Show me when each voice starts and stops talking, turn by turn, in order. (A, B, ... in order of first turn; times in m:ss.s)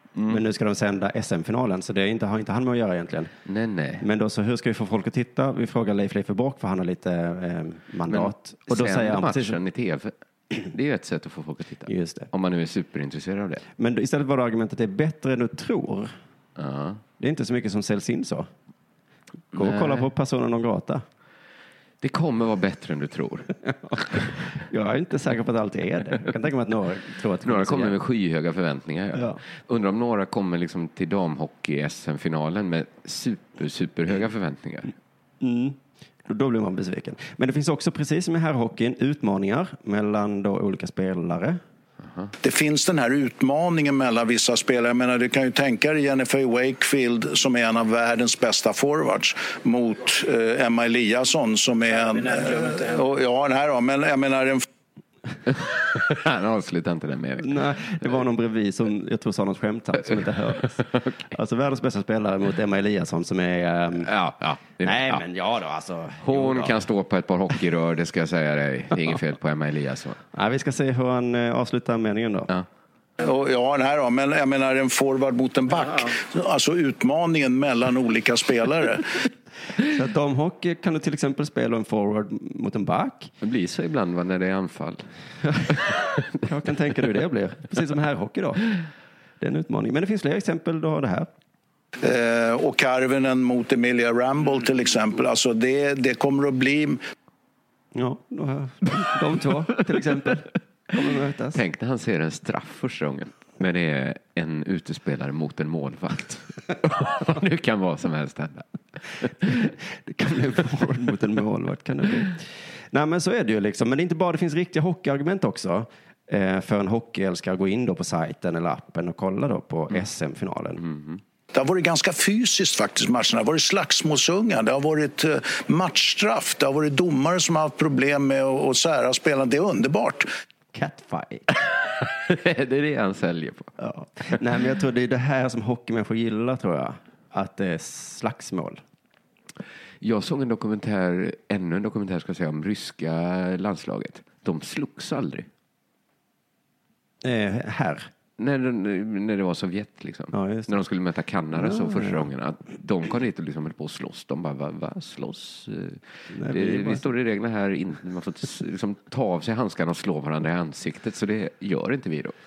0:00.2-0:00.4 A
0:00.3-0:03.3 B
0:03.4-0:04.0 A
0:04.0-0:09.6 B
0:08.1-0:13.6 A
0:11.9-0:12.3 B
0:13.8-0:16.1 B
0:16.6-0:17.0 A
0:17.2-0:18.5 B
0:19.5-0:20.1 A
0:19.5-0:21.0 B
0:22.0-0:23.5 A
0:24.6-0:28.0 B
0:27.4-0:34.9 A
0:29.1-0:29.4 B
0:35.4-0:41.6 B
0:42.0-0:42.3 A
0:42.4-0:54.6 C
0:55.5-0:57.6 A
0:57.4-1:04.1 B
1:00.9-1:01.2 A
1:04.0-1:05.2 A
1:04.8-1:06.8 B
1:06.2-1:10.2 A
1:10.3-1:12.5 B
1:13.2-1:19.0 C
1:19.9-1:23.3 B
1:23.4-1:25.0 A
1:25.5-1:25.8 B
1:25.7-1:26.1 A
1:26.4-1:28.6 B
1:29.4-1:31.3 B
1:32.0-1:37.0 C
1:37.9-1:41.6 B
1:41.5-1:48.6 A
1:49.2-1:49.7 A
1:50.0-2:00.8 B
2:00.8-2:01.2 A
2:01.5-2:10.3 C
2:10.7-2:11.4 B
2:12.0-2:13.7 A
2:13.8-2:18.8 B
2:20.0-2:25.4 A
2:27.2-2:28.1 B
2:28.4-2:42.3 A
2:30.3-2:30.7 B
2:31.5-2:32.3 B
2:36.3-2:37.1 B